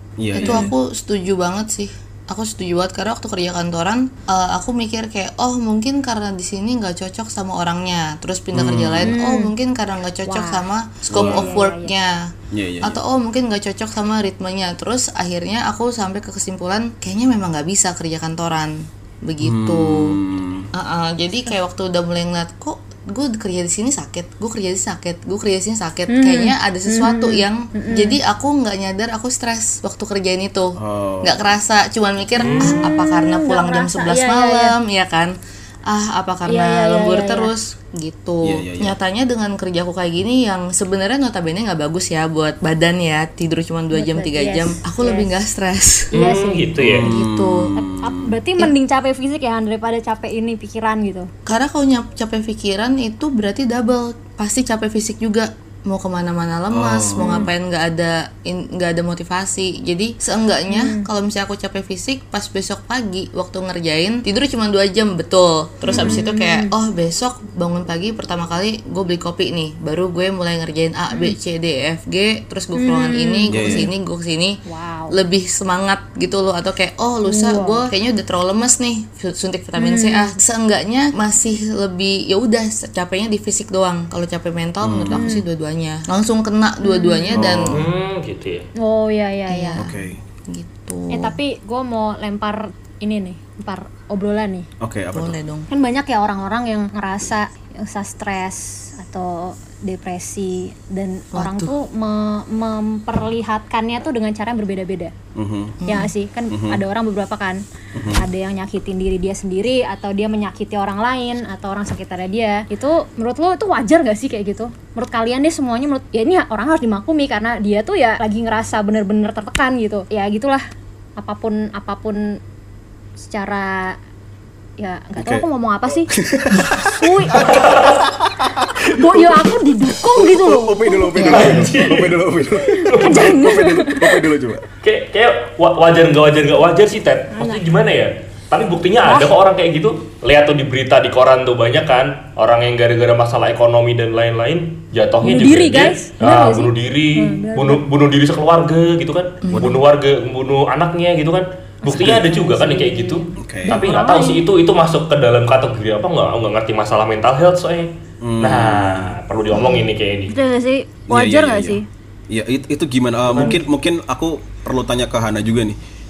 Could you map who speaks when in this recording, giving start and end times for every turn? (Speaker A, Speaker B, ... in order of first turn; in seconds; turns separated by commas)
Speaker A: 0.2-0.7, Speaker B: 0.3-20.2, Speaker C: 0.4-0.7, Speaker A: 8.5-9.2, Speaker C: 9.0-9.5, Speaker C: 10.2-11.9, Speaker A: 11.1-11.6, Speaker A: 12.5-13.0, Speaker A: 19.4-20.7, Speaker B: 20.7-46.1, Speaker C: 26.1-28.2, Speaker A: 30.8-31.5, Speaker D: 32.4-32.8, Speaker C: 32.4-34.7, Speaker C: 36.5-37.5, Speaker A: 38.4-39.0, Speaker C: 43.9-45.3, Speaker C: 46.1-46.7, Speaker D: 46.1-47.1, Speaker A: 46.8-48.3, Speaker B: 47.0-47.8, Speaker C: 47.8-51.3, Speaker B: 51.5-74.6, Speaker A: 56.7-57.5, Speaker C: 57.2-57.5, Speaker C: 60.7-61.1, Speaker C: 65.9-66.7, Speaker A: 65.9-66.2, Speaker C: 71.1-71.3, Speaker C: 72.7-73.9, Speaker A: 73.5-73.9, Speaker C: 74.7-75.2, Speaker B: 75.1-87.8, Speaker C: 77.2-77.9, Speaker C: 79.8-80.4, Speaker A: 84.8-85.3, Speaker C: 85.1-85.4, Speaker C: 86.8-87.4, Speaker A: 87.3-87.8, Speaker D: 87.7-88.7, Speaker C: 88.7-89.8, Speaker B: 89.5-91.4, Speaker A: 89.8-90.2, Speaker C: 91.1-94.7, Speaker A: 94.8-95.4, Speaker B: 95.1-95.7, Speaker C: 95.7-105.1, Speaker B: 101.3-101.7, Speaker A: 105.3-105.8, Speaker B: 105.8-106.1, Speaker C: 105.9-107.6, Speaker A: 106.5-106.8, Speaker A: 107.9-108.2, Speaker C: 108.1-120.6, Speaker C: 121.2-122.4, Speaker C: 123.2-124.0, Speaker C: 124.8-126.1, Speaker A: 125.2-125.5, Speaker A: 126.1-129.4, Speaker C: 126.8-127.6, Speaker D: 127.4-128.0, Speaker C: 128.9-131.6, Speaker A: 130.1-134.6, Speaker D: 131.3-132.2, Speaker C: 132.7-134.2, Speaker D: 132.8-133.3, Speaker D: 134.8-160.3, Speaker C: 137.3-137.7, Speaker C: 139.0-139.3, Speaker C: 145.2-147.8, Speaker B: 149.4-149.8, Speaker A: 149.5-149.8, Speaker C: 151.8-154.4, Speaker A: 151.9-152.3, Speaker A: 153.4-153.8, Speaker A: 158.2-159.2, Speaker B: 159.5-159.9, Speaker C: 160.3-161.8, Speaker A: 161.1-165.8, Speaker D: 163.2-163.6